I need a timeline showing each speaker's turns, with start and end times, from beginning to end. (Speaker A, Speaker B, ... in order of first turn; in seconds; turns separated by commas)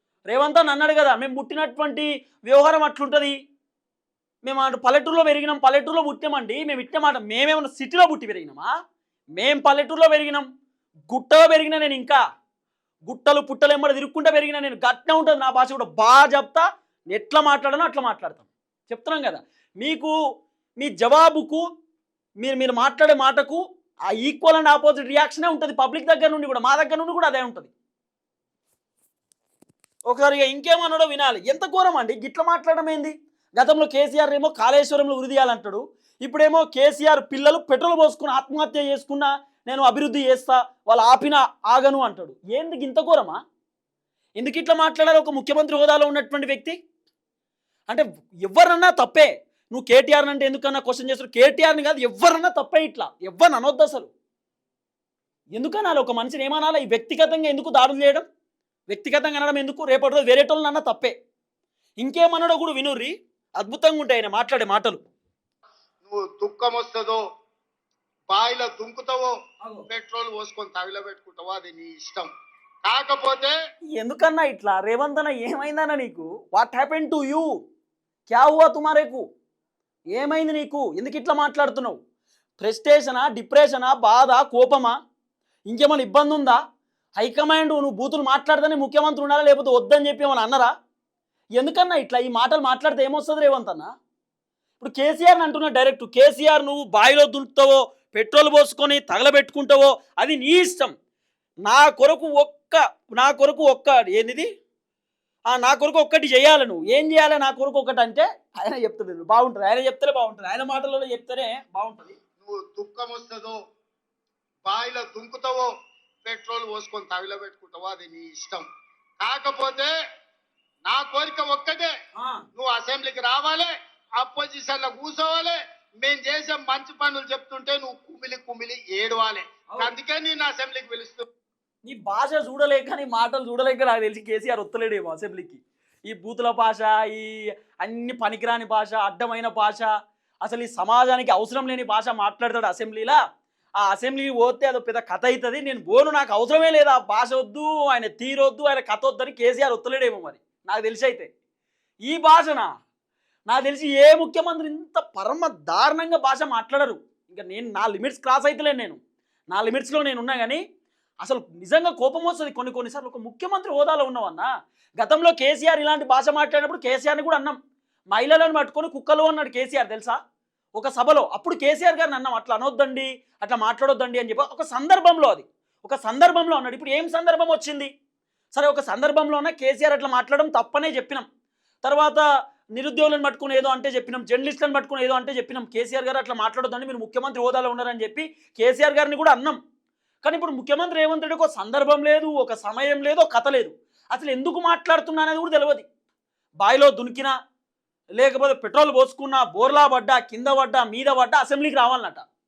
Speaker A: 0.3-3.3, Speaker A: 4.4-8.7, Speaker A: 9.4-10.5, Speaker A: 11.1-12.2, Speaker A: 13.1-20.1, Speaker A: 20.8-21.6, Speaker A: 22.4-23.6, Speaker A: 24.1-27.7, Speaker A: 30.1-43.4, Speaker A: 44.4-46.8, Speaker A: 47.9-54.1, Speaker A: 55.5-58.2, Speaker A: 58.9-61.1, Speaker A: 62.0-65.0, Speaker B: 66.0-67.2, Speaker B: 68.3-69.3, Speaker A: 69.6-69.9, Speaker B: 69.9-72.3, Speaker B: 72.8-73.5, Speaker A: 74.0-77.5, Speaker A: 78.3-79.2, Speaker A: 80.1-82.0, Speaker A: 82.6-84.9, Speaker A: 85.7-86.6, Speaker A: 87.2-90.7, Speaker A: 91.6-93.9, Speaker A: 94.8-100.9, Speaker A: 101.7-104.5, Speaker A: 105.5-112.2, Speaker B: 112.4-113.6, Speaker B: 114.6-115.7, Speaker B: 116.2-118.7, Speaker B: 119.2-119.9, Speaker B: 120.8-121.9, Speaker A: 122.2-122.4, Speaker B: 122.5-131.2, Speaker A: 131.8-139.9, Speaker A: 140.4-143.2, Speaker A: 143.8-151.3, Speaker A: 152.1-152.7, Speaker A: 153.5-159.0, Speaker A: 159.5-160.6, Speaker A: 161.2-164.5, Speaker A: 165.0-167.6, Speaker A: 168.1-170.2, Speaker A: 170.8-177.9, Speaker A: 178.5-181.2, Speaker A: 181.8-182.2, Speaker A: 182.8-189.6, Speaker A: 190.2-195.8, Speaker A: 196.6-197.3, Speaker A: 198.2-202.2